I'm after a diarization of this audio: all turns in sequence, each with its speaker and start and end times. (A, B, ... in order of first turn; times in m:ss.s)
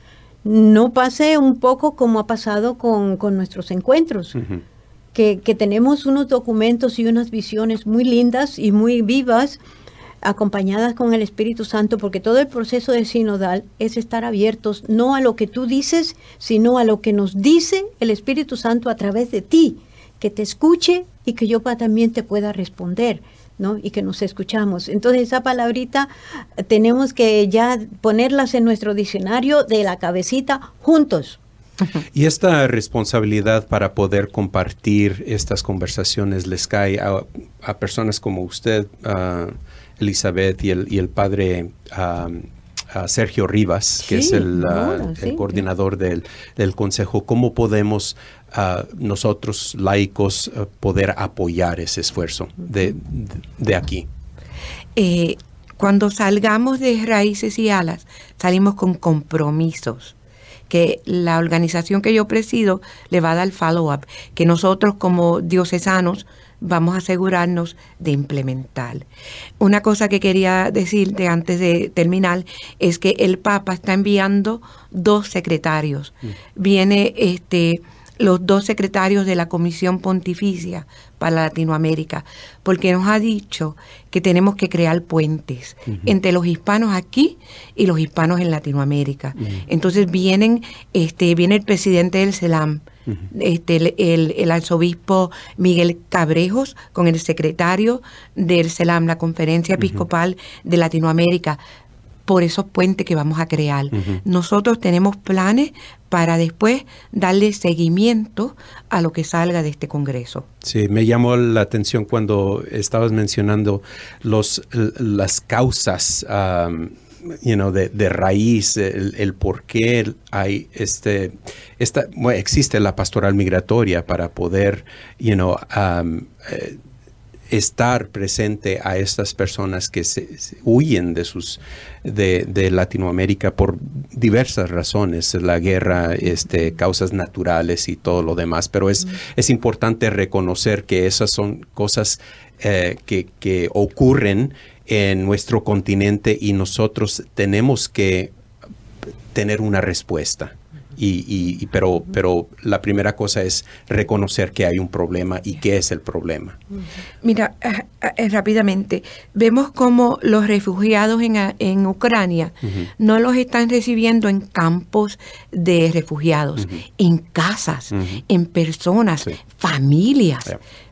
0:00.4-0:04.4 A
0:04.3-0:04.6 B
0:05.1-0:09.6 A
0:10.2-0:31.4 A
0:32.1-0:54.1 B
0:44.0-0:45.6 A
0:55.0-1:00.1 C
1:00.7-1:09.0 C
1:09.6-1:41.6 C
1:25.9-1:26.1 B
1:29.4-1:29.6 B
1:39.8-1:40.0 B
1:42.3-1:50.5 C
1:43.9-1:44.2 B
1:50.6-2:06.8 B
2:07.5-2:28.3 B
2:29.3-2:36.6 B
2:37.2-2:50.6 C
2:42.6-2:42.9 B
2:46.6-2:46.8 B
2:47.9-2:48.2 B